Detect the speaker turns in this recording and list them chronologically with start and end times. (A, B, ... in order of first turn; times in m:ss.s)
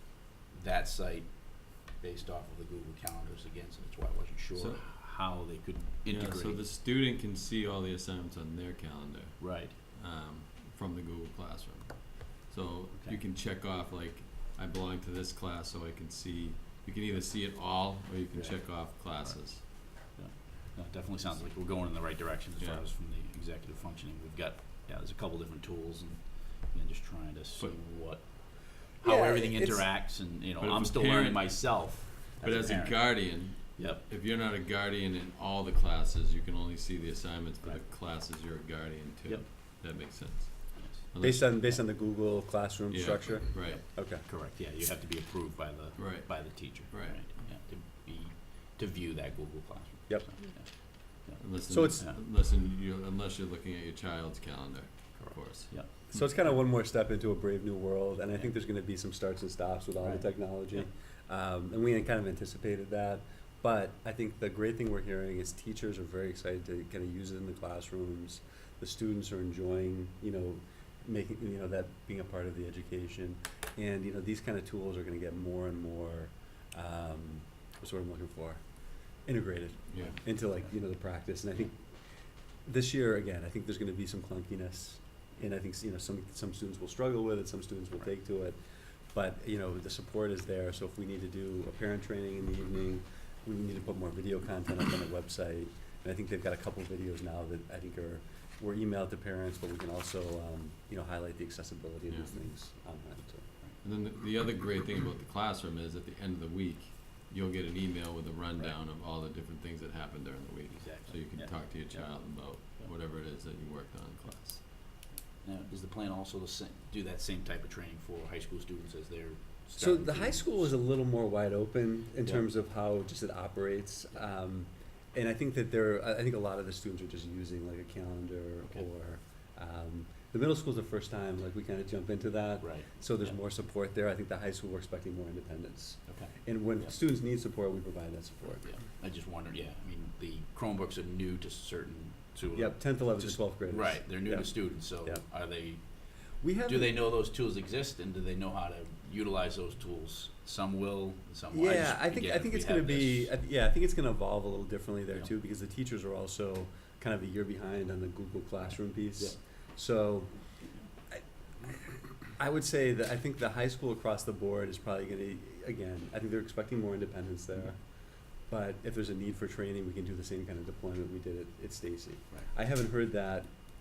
0:00.5-0:06.6 A
0:04.6-0:04.8 B
0:06.1-0:19.7 B
0:09.4-0:09.8 A
0:18.3-0:34.1 A
0:22.6-0:22.8 B
0:29.0-0:29.9 C
0:30.6-0:41.9 B
0:39.3-0:40.1 A
0:40.8-0:41.8 A
0:41.2-0:44.2 C
0:42.9-0:43.8 B
0:44.3-0:52.2 A
0:46.0-0:47.2 B
0:51.4-0:55.7 B
0:51.7-0:52.0 C
0:55.2-0:56.1 A
0:56.1-1:18.6 C
1:00.0-1:00.9 A
1:19.2-1:21.8 C
1:22.6-1:28.6 C
1:29.1-1:43.5 C
1:43.8-1:54.6 B
1:50.7-1:52.9 A
1:54.9-2:00.8 A
1:59.8-2:18.7 C
2:12.6-2:13.4 A
2:16.1-2:17.0 A
2:18.6-2:33.3 A
2:22.6-2:25.2 C
2:26.4-2:27.0 C
2:31.5-2:40.5 C
2:41.1-2:47.8 C
2:48.5-2:53.5 C